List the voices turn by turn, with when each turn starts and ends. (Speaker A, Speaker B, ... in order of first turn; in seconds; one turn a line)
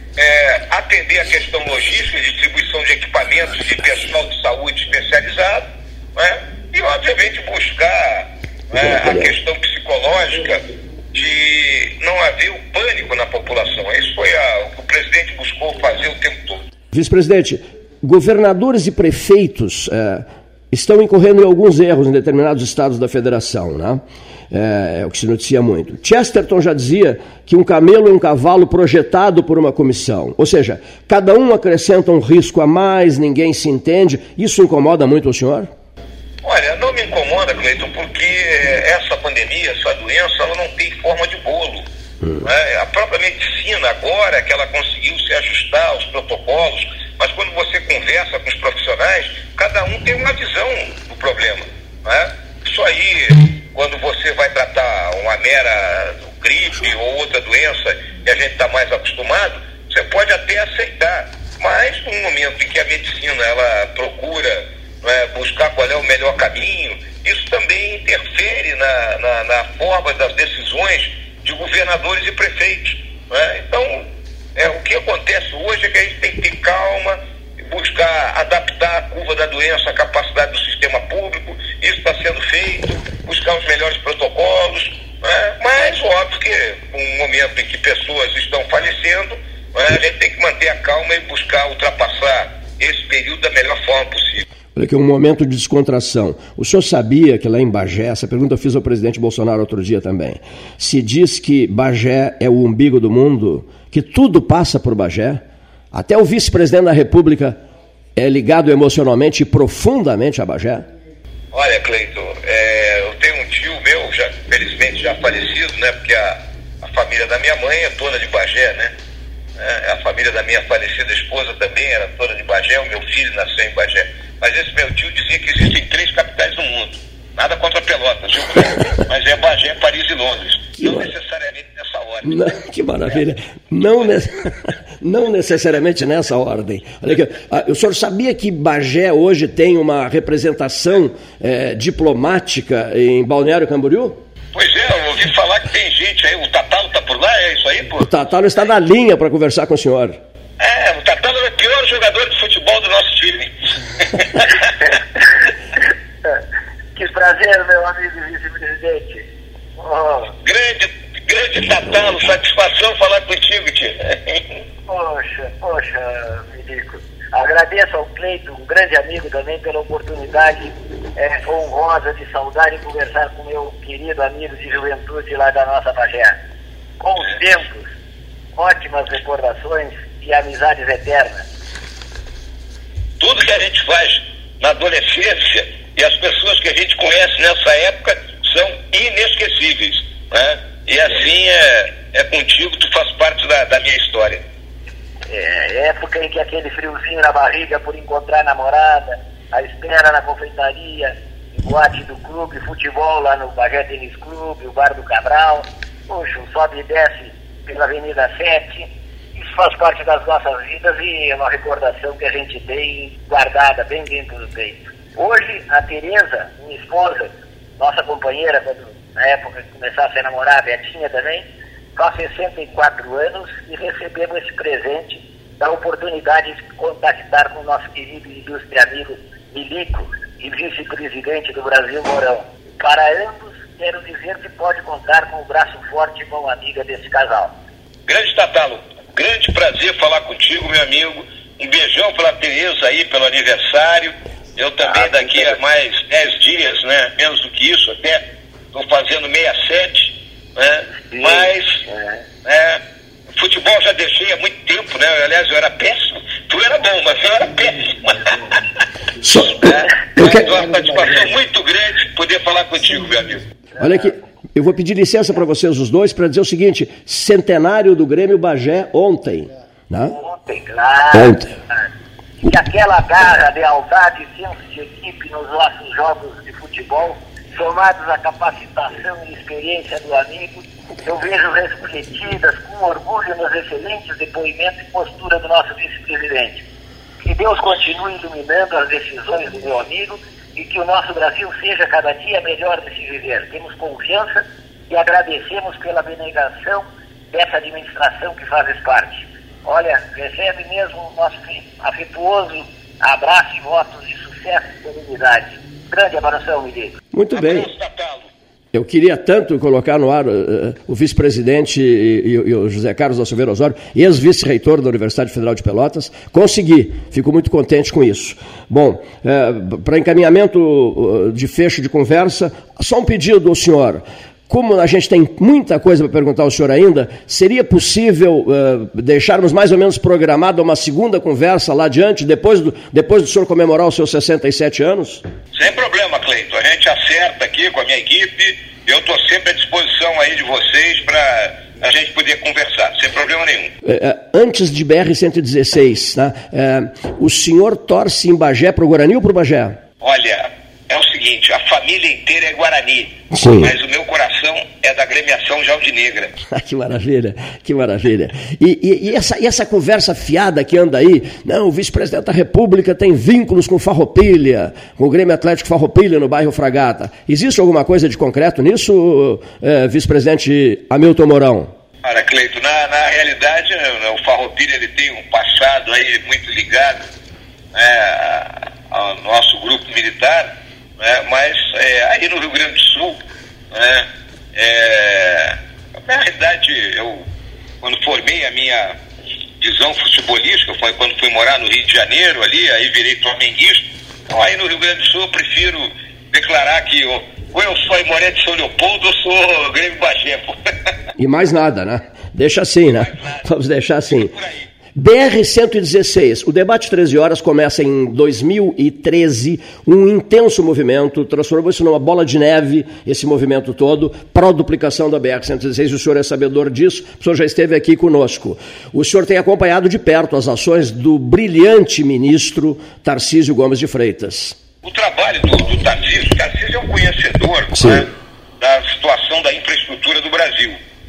Speaker A: 0.1-16.6
Speaker B: 8.8-9.3
Speaker B: 16.9-35.7
Speaker A: 36.4-41.9
Speaker A: 42.4-94.5
Speaker B: 94.7-107.6
Speaker B: 108.2-110.8
Speaker A: 111.5-118.9
Speaker A: 119.6-132.6
Speaker B: 130.8-131.1
Speaker B: 132.2-144.2
Speaker A: 144.5-148.1
Speaker B: 148.0-150.2
Speaker A: 150.6-154.7
Speaker C: 156.9-159.2
Speaker C: 159.8-160.3
Speaker A: 160.4-164.6
Speaker C: 164.9-176.4
Speaker C: 177.0-177.9
Speaker C: 178.6-181.4
Speaker A: 183.2-194.4
Speaker C: 195.3-237.5
Speaker A: 238.1-251.8
Speaker C: 244.8-245.6
Speaker C: 251.1-252.2
Speaker A: 252.4-258.4
Speaker B: 259.2-260.5
Speaker A: 259.4-263.4
Speaker B: 263.8-270.2
Speaker C: 270.2-271.9
Speaker B: 271.1-271.5
Speaker C: 272.4-286.6
Speaker C: 287.2-306.9
Speaker B: 307.1-307.7
Speaker A: 307.3-308.3
Speaker B: 308.7-335.2
Speaker A: 335.5-343.7
Speaker B: 343.8-349.8
Speaker A: 350.0-356.3
Speaker B: 353.3-353.7
Speaker B: 356.5-371.7
Speaker A: 372.0-377.1
Speaker A: 377.7-387.3
Speaker A: 387.8-389.0
Speaker A: 389.6-400.6
Speaker B: 401.2-404.3
Speaker A: 402.9-403.5
Speaker A: 404.1-404.7
Speaker B: 404.9-424.6
Speaker A: 424.8-430.8
Speaker B: 427.7-428.1